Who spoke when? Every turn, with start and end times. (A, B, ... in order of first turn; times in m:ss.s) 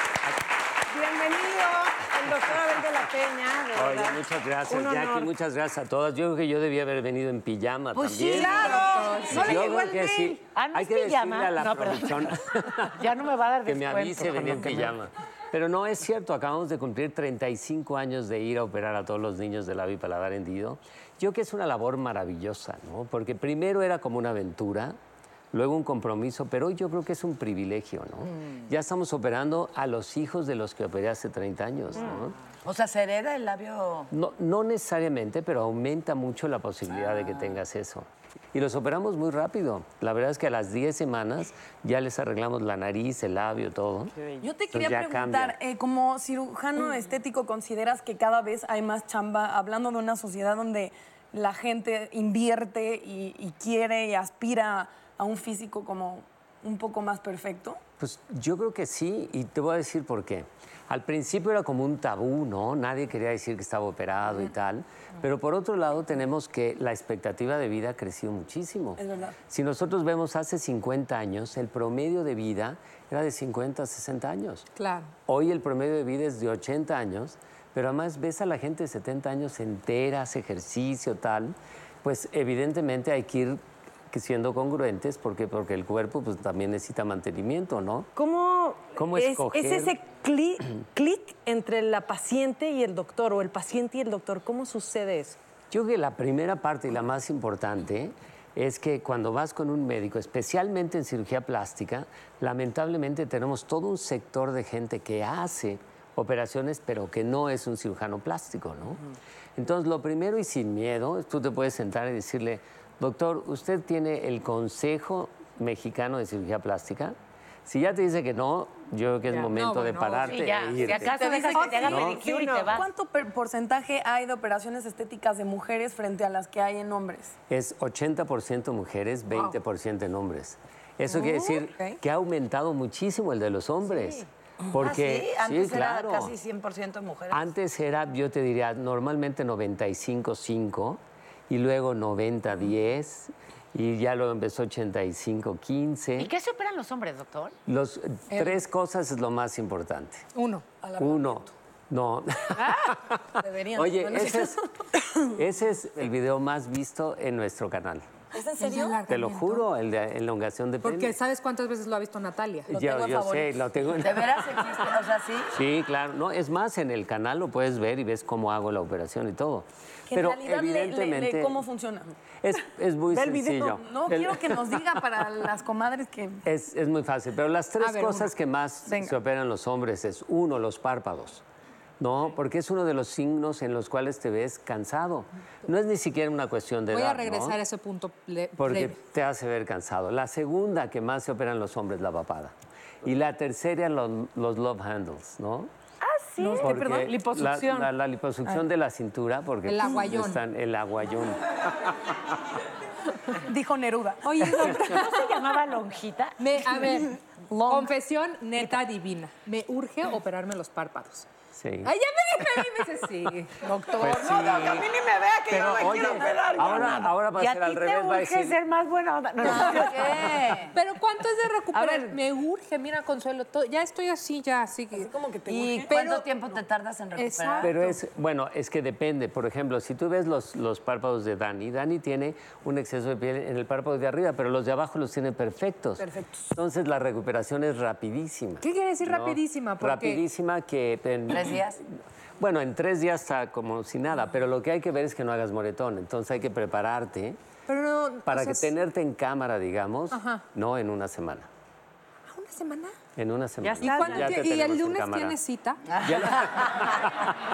0:00.9-0:05.3 A
0:03.7-0:08.7 B
0:07.9-0:08.8 C
0:08.3-0:10.4 A
0:08.3-0:10.0 D
0:09.3-0:13.1 B
0:10.5-0:12.3 E
0:12.9-0:14.9 E
0:13.6-0:25.0 B
0:25.5-0:32.3 B
0:28.3-0:28.6 C
0:32.6-0:34.1 C
0:34.1-0:44.1 B
0:37.0-0:37.6 C
0:44.4-0:57.8 F
0:44.7-0:45.6 B
0:58.0-1:14.6 B
1:09.0-1:09.3 F
1:14.8-1:15.1 D
1:15.3-1:28.1 B
1:28.1-1:35.4 A
1:28.9-1:29.9 B
1:35.7-1:49.0 B
1:49.6-2:02.2 B
1:59.3-2:00.4 D
2:00.3-2:02.9 E
2:01.1-2:07.3 F
2:02.3-2:02.6 A
2:07.5-2:16.3 B
2:11.2-2:11.9 F
2:14.7-2:17.4 C
2:17.3-2:26.3 B
2:26.2-2:27.6 E
2:27.7-2:30.2 B
2:28.3-2:28.6 F
2:30.3-2:30.6 D
2:30.8-2:31.4 F
2:31.0-2:34.6 B
2:32.6-2:32.8 D
2:33.4-2:34.6 F
2:35.1-2:38.0 B
2:38.3-2:39.0 F
2:38.6-2:39.7 D
2:39.1-2:41.2 B
2:40.8-2:42.7 D
2:42.7-2:43.6 F
2:42.7-2:44.7 B
2:44.0-2:45.5 C
2:45.5-2:51.6 B
2:50.1-2:52.1 F
2:52.4-2:54.8 B
2:53.1-2:53.8 A
2:53.2-2:56.4 F
2:56.4-3:01.4 B
2:57.8-2:58.3 D
2:58.9-2:59.2 F
3:02.0-3:07.6 B
3:06.9-3:09.0 D
3:08.6-3:12.5 B
3:13.0-3:15.7 B
3:16.0-3:17.8 E
3:16.6-3:21.6 B
3:16.6-3:17.2 A
3:19.6-3:20.4 D
3:23.4-3:24.6 F
3:24.2-3:25.2 D
3:24.5-3:26.4 E
3:26.4-3:31.3 D
3:27.5-3:27.9 F
3:31.5-3:31.9 B
3:31.8-3:33.6 D
3:33.9-3:34.9 B
3:34.0-3:34.6 E
3:34.4-3:37.0 A
3:35.5-3:38.6 B
3:36.8-3:40.2 E
3:39.5-3:40.7 C
3:40.7-3:45.1 D
3:44.9-3:45.9 F
3:45.5-3:47.7 C
3:45.9-3:46.3 D
3:47.2-3:48.0 D
3:47.6-4:01.6 B
3:58.6-4:00.2 D
4:01.3-4:01.8 C
4:02.4-4:07.4 B
4:07.7-4:08.7 D
4:08.2-4:11.5 B
4:10.1-4:10.4 D
4:12.3-4:12.9 D
4:13.2-4:15.4 B
4:13.7-4:14.3 A
4:13.8-4:15.8 D
4:16.0-4:16.9 C
4:16.0-4:17.3 B